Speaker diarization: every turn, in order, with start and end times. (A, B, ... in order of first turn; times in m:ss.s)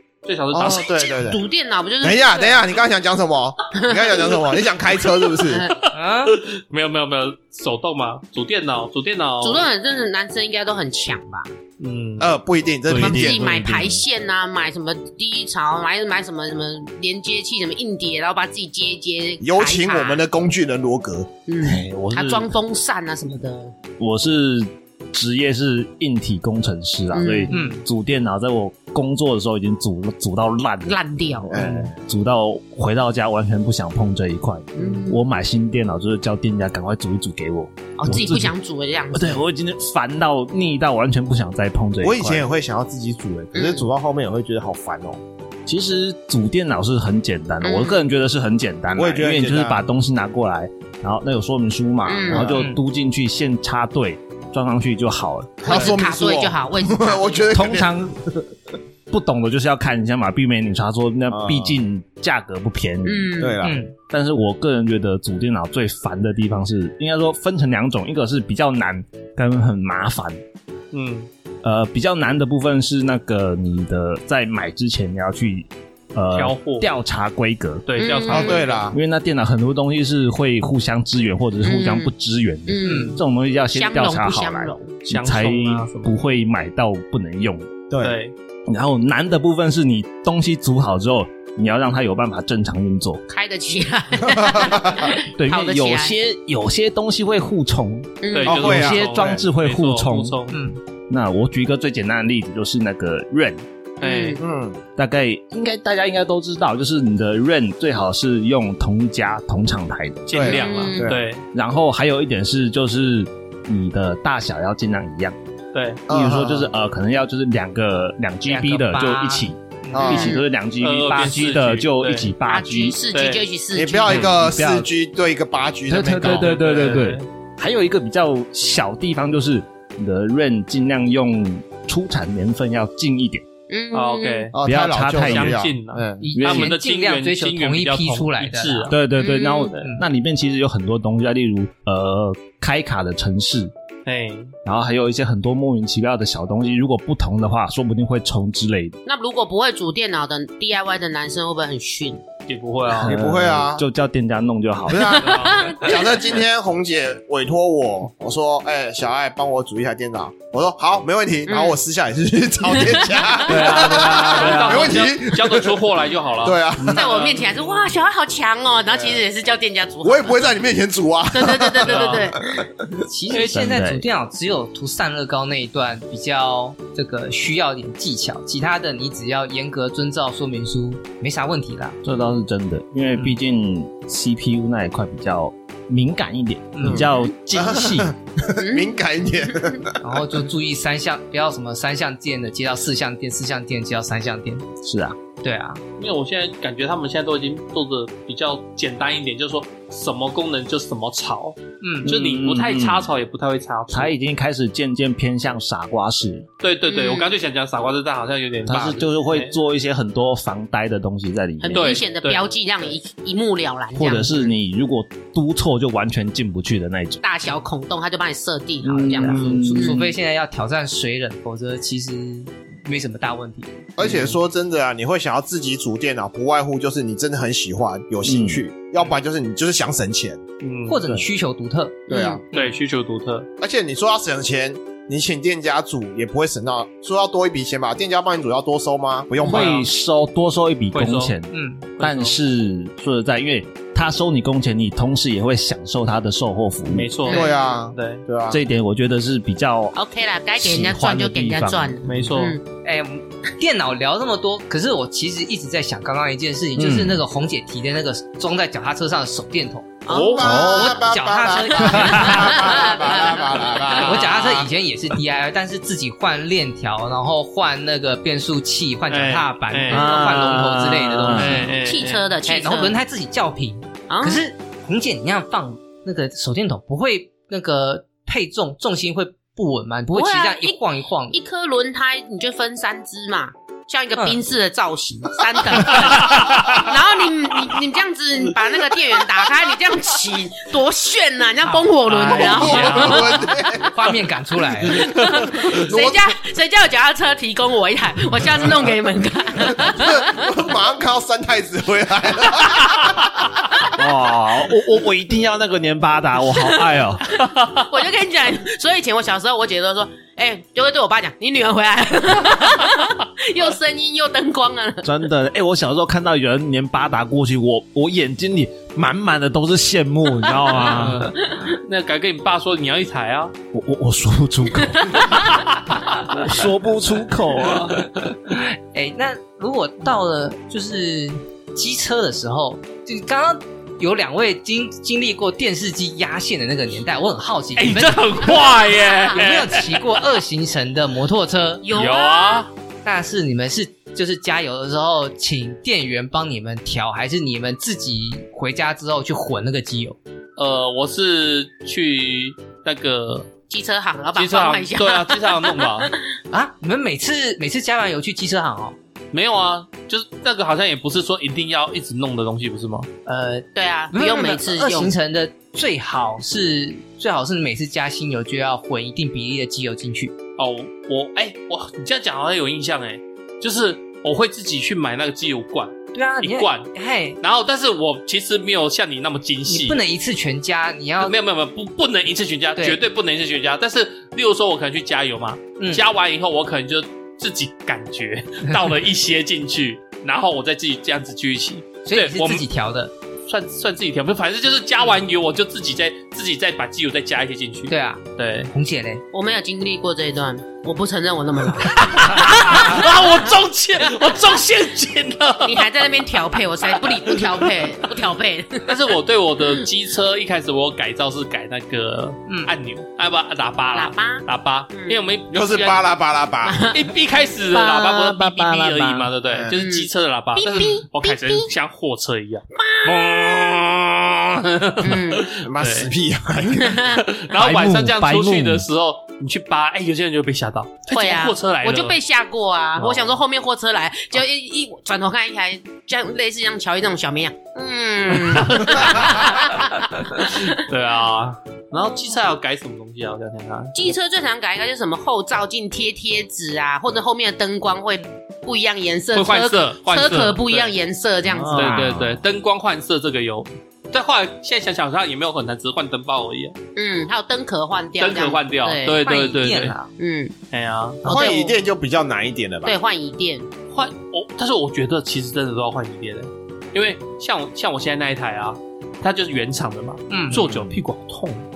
0:00.2-0:01.0 A
0:00.5-0:01.4 B
0:00.6-0:02.6 C
0:02.0-0:05.7 B
0:03.7-0:04.4 C
0:05.4-0:05.7 C
0:05.7-0:09.6 A
0:05.9-0:06.4 D
0:09.4-0:11.5 C
0:11.8-0:12.4 A
0:12.2-0:13.5 B
0:12.9-0:13.2 A
0:12.9-0:14.0 E
0:13.0-0:20.2 C
0:19.4-0:21.4 B
0:21.4-0:23.8 C
0:21.6-0:22.5 E
0:24.0-0:38.5 E
0:27.1-0:27.6 C
0:27.5-0:27.8 D
0:30.8-0:31.6 C
0:31.5-0:31.9 B
0:34.8-0:35.2 C
0:38.0-0:39.4 C
0:39.1-0:42.5 E
0:42.0-0:45.2 B
0:43.5-0:43.9 C
0:45.7-0:55.8 E
0:47.6-0:48.0 C
0:49.0-0:49.8 B
0:52.0-0:52.6 C
0:52.3-0:52.7 B
0:52.5-0:52.8 D
0:55.6-0:57.9 B
0:55.7-0:57.4 C
0:57.5-0:58.4 E
0:59.1-1:10.4 E
1:01.3-1:01.8 B
1:03.0-1:03.5 C
1:03.4-1:03.8 B
1:03.6-1:03.9 D
1:10.9-1:11.3 A
1:11.6-1:17.8 E
1:16.3-1:16.9 A
1:17.8-1:18.8 A
1:18.0-1:18.6 C
1:18.3-1:19.0 B
1:18.9-1:27.7 E
1:21.6-1:22.1 C
1:22.7-1:23.2 C
1:22.8-1:23.2 D
1:23.7-1:25.0 C
1:25.1-1:26.1 A
1:27.9-1:28.2 B
1:28.0-1:28.3 A
1:28.7-1:33.2 E
1:33.3-1:36.1 C
1:34.3-1:35.0 B
1:35.3-1:40.4 E
1:38.2-1:38.6 C
1:38.3-1:40.6 A
1:38.4-1:39.4 B
1:40.5-1:40.8 D
1:41.1-1:43.6 E
1:44.0-1:44.4 A
1:44.0-1:44.4 C
1:44.4-1:44.8 B
1:45.0-1:50.5 E
1:50.3-1:51.4 A
1:50.3-1:51.2 B
1:50.4-1:51.1 C
1:51.5-1:55.4 E
1:55.7-1:56.0 A
1:56.1-1:56.7 B
1:56.1-2:03.0 E
1:58.4-2:00.1 D
1:59.9-2:00.3 B
2:00.0-2:00.4 C
2:00.8-2:02.3 A
2:02.4-2:04.3 C
2:03.1-2:03.4 A
2:03.7-2:06.6 B
2:04.0-2:04.9 E
2:05.9-2:13.4 E
2:06.2-2:07.2 A
2:13.7-2:14.5 C
2:13.9-2:14.5 A
2:14.5-2:16.2 B
2:14.6-2:15.6 E
2:15.1-2:19.0 A
2:16.2-2:18.9 D
2:16.3-2:16.7 E
2:18.9-2:23.7 E
2:19.2-2:19.7 C
2:24.0-2:24.5 A
2:24.6-2:29.0 E
2:29.0-2:32.2 C
2:32.5-2:33.1 A
2:33.0-2:35.3 E
2:33.0-2:33.8 B
2:34.9-2:45.9 B
2:35.2-2:35.9 A
2:35.3-2:36.0 C
2:41.5-2:41.8 C
2:42.7-2:43.4 C
2:43.4-2:47.8 A
2:43.5-2:44.8 E
2:46.4-2:47.1 B
2:46.8-2:50.5 C
2:50.0-2:52.9 B
2:51.3-2:52.6 C
2:51.8-2:52.3 A
2:53.1-3:02.0 D
2:53.3-2:54.0 E
3:02.0-3:08.1 E
3:06.7-3:07.1 D
3:06.8-3:10.0 B
3:08.6-3:08.9 C
3:10.0-3:14.7 D
3:14.8-3:15.2 E
3:15.4-3:15.8 D
3:16.0-3:24.1 A
3:21.8-3:22.1 D
3:22.0-3:23.1 E
3:23.9-3:26.5 E
3:26.6-3:29.6 A
3:26.9-3:27.3 C
3:28.6-3:32.0 E
3:31.6-3:34.5 C
3:31.7-3:32.5 A
3:33.9-3:37.2 E
3:37.2-3:40.0 C
3:38.8-3:40.1 E
3:39.0-3:44.2 D
3:44.0-3:50.4 B
3:48.2-3:48.6 E
3:50.6-3:51.0 A
3:50.9-3:52.7 D
3:52.1-3:52.4 C
3:52.1-3:52.4 B
3:52.5-3:53.5 A
3:53.6-3:59.7 B
3:59.4-3:59.9 A
3:59.4-4:07.1 E
4:00.9-4:01.3 A
4:01.5-4:01.9 D
4:02.0-4:02.4 A
4:06.9-4:08.2 A
4:07.2-4:07.6 C
4:07.3-4:08.6 B
4:08.5-4:09.9 E
4:09.9-4:12.6 C
4:10.6-4:12.0 E
4:12.0-4:12.6 A
4:12.8-4:31.7 D
4:16.8-4:17.2 E
4:20.0-4:20.8 C
4:20.1-4:20.6 A
4:20.1-4:24.7 B
4:20.4-4:20.8 E
4:21.8-4:22.4 E
4:22.2-4:23.8 C
4:29.1-4:30.0 A
4:29.9-4:31.7 E
4:31.3-4:32.2 A
4:31.8-4:33.0 C
4:32.4-4:41.4 D
4:34.1-4:34.4 C
4:40.1-4:40.8 C
4:41.3-4:53.4 C
4:46.2-4:46.8 A
4:51.7-4:55.0 D
4:52.1-4:53.5 A
4:52.2-4:53.9 B
4:54.9-5:00.5 C
4:55.4-4:56.4 B
4:59.8-5:03.5 B
5:04.0-5:07.2 E
5:07.6-5:07.8 A
5:07.8-5:15.1 C
5:15.0-5:21.3 E
5:20.8-5:23.5 A
5:23.7-5:25.6 E
5:26.2-5:28.1 E
5:28.5-5:38.6 D
5:37.8-5:40.2 A
5:39.3-5:41.9 D
5:41.8-5:42.6 C
5:41.9-5:42.7 A
5:43.0-5:50.2 D
5:50.6-5:53.5 A
5:53.7-5:56.2 C
5:54.3-5:56.1 A
5:56.5-5:59.0 D
5:59.3-6:03.1 A
6:03.2-6:10.3 D
6:03.7-6:05.2 C
6:10.6-6:16.9 A
6:16.1-6:17.4 D
6:17.4-6:20.0 A
6:19.7-6:21.3 D
6:21.2-6:32.6 A
6:25.8-6:26.0 D
6:32.0-6:33.1 D
6:33.4-6:38.7 A
6:37.9-6:39.2 D
6:39.3-6:43.1 C
6:41.8-6:45.9 A
6:45.6-6:49.0 C
6:46.9-6:47.8 A
6:48.9-6:56.0 A
6:52.5-6:52.7 D
6:53.9-6:55.2 C
6:55.5-6:56.9 B
6:56.6-6:57.0 C
6:56.9-7:06.1 A
6:57.7-6:59.3 E
6:59.7-7:01.7 C
7:02.8-7:03.3 C
7:05.0-7:05.5 C
7:05.5-7:07.2 B
7:06.8-7:07.2 C
7:07.1-7:12.2 A
7:07.5-7:08.8 E
7:11.1-7:20.9 C
7:13.0-7:13.4 A
7:18.3-7:24.1 A
7:23.9-7:31.9 C
7:29.3-7:30.9 A
7:31.5-7:32.4 E
7:31.7-7:36.8 A
7:37.0-7:39.2 C
7:38.2-7:40.0 A
7:39.1-7:40.1 D
7:40.2-7:40.5 C
7:40.7-7:41.2 A
7:41.2-7:41.8 C
7:41.2-7:42.9 B
7:42.8-7:43.7 C
7:43.9-7:51.6 A
7:50.3-7:50.6 D
7:50.5-7:51.0 B